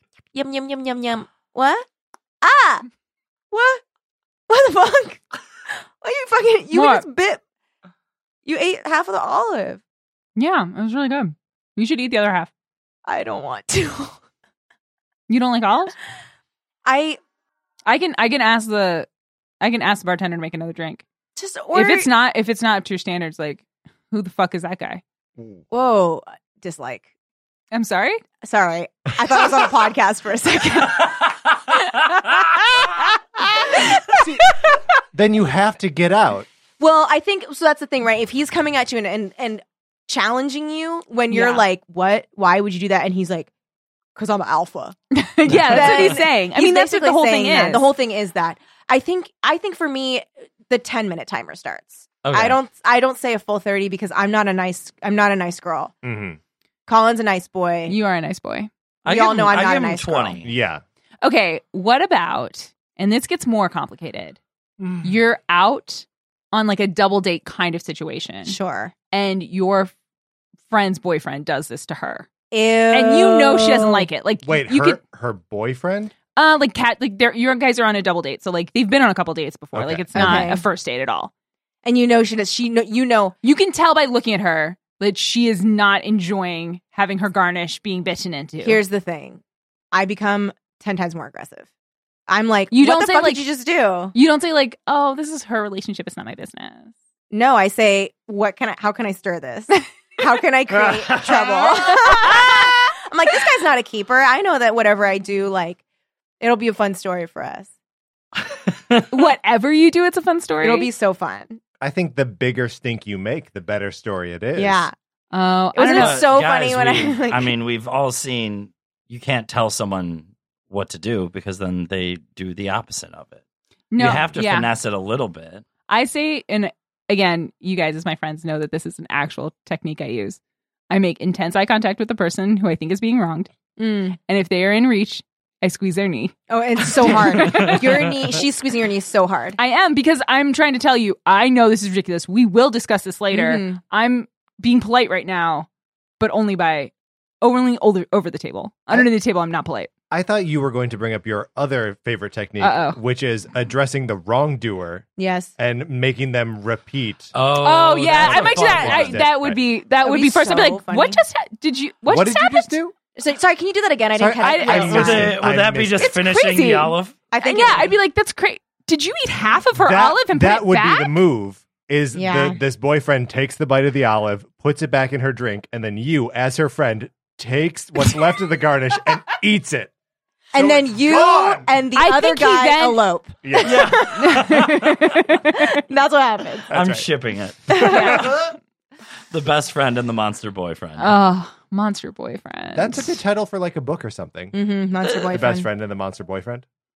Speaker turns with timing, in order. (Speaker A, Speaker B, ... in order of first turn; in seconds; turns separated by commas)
Speaker A: 0.3-1.9, Speaker A: 2.4-2.9, Speaker A: 3.5-3.8, Speaker A: 4.5-7.4, Speaker B: 6.7-7.0, Speaker A: 8.4-9.8, Speaker B: 10.4-12.5, Speaker A: 13.1-14.2, Speaker B: 15.3-15.9, Speaker A: 16.9-17.2, Speaker B: 17.9-19.1, Speaker B: 19.6-21.0, Speaker A: 21.4-22.1, Speaker B: 21.7-25.0, Speaker C: 25.4-25.6, Speaker A: 25.7-27.1, Speaker B: 27.7-28.2, Speaker A: 28.4-31.3, Speaker A: 31.8-34.8, Speaker C: 34.1-34.5, Speaker C: 35.1-36.5, Speaker A: 36.8-43.5, Speaker B: 41.3-41.6, Speaker A: 44.2-56.0, Speaker B: 45.1-47.9, Speaker D: 52.2-52.6, Speaker C: 56.0-56.4, Speaker A: 56.9-58.0, Speaker B: 57.9-58.7, Speaker D: 59.0-60.5, Speaker A: 59.1-60.4, Speaker C: 60.4-60.8, Speaker B: 61.2-64.4, Speaker C: 64.8-65.2, Speaker B: 65.0-68.6, Speaker A: 68.5-68.9, Speaker B: 69.1-69.9, Speaker B: 70.7-72.3, Speaker A: 72.5-74.1, Speaker B: 72.9-75.0, Speaker C: 74.5-76.1, Speaker B: 76.3-81.3, Speaker C: 79.7-80.5, Speaker A: 80.1-80.6, Speaker A: 81.8-83.4, Speaker B: 83.4-88.8, Speaker A: 88.6-89.4, Speaker A: 89.9-91.7, Speaker A: 92.3-94.1, Speaker B: 92.7-93.5, Speaker B: 94.1-96.9, Speaker A: 97.3-105.8, Speaker A: 106.4-107.7, Speaker D: 108.4-109.1, Speaker B: 109.1-110.9, Speaker A: 110.6-111.6, Speaker C: 111.8-114.9, Speaker A: 114.6-114.9, Speaker B: 115.3-116.3, Speaker A: 115.7-117.5, Speaker D: 116.0-123.4, Speaker B: 123.9-124.7, Speaker D: 124.0-125.7, Speaker B: 125.9-130.4, Speaker B: 130.9-133.5, Speaker A: 133.8-134.2, Speaker B: 134.3-136.4, Speaker A: 136.5-139.6, Speaker B: 137.0-137.8, Speaker D: 137.1-138.2, Speaker B: 139.6-145.7, Speaker A: 143.3-143.8, Speaker B: 146.2-149.9, Speaker C: 150.1-157.3, Speaker B: 152.6-153.0, Speaker A: 155.2-155.5, Speaker D: 157.3-159.2, Speaker B: 157.6-162.8, Speaker C: 158.1-159.6, Speaker A: 160.0-161.2, Speaker C: 162.1-162.9, Speaker A: 163.2-165.4, Speaker C: 164.2-166.1, Speaker B: 164.4-165.3, Speaker D: 164.7-167.2, Speaker B: 166.0-171.2, Speaker A: 167.3-167.9, Speaker C: 169.8-179.9, Speaker A: 172.1-172.6, Speaker A: 180.5-184.8, Speaker C: 180.6-181.7, Speaker B: 181.9-183.1, Speaker C: 183.4-183.9, Speaker D: 183.6-185.0, Speaker B: 184.2-185.7, Speaker A: 185.7-186.7, Speaker C: 186.7-187.1, Speaker D: 186.7-188.5, Speaker A: 187.7-188.2, Speaker B: 187.9-188.3, Speaker C: 187.9-188.4, Speaker D: 189.3-191.2, Speaker B: 191.0-193.2, Speaker C: 192.8-194.6, Speaker A: 194.5-195.7, Speaker C: 195.3-196.7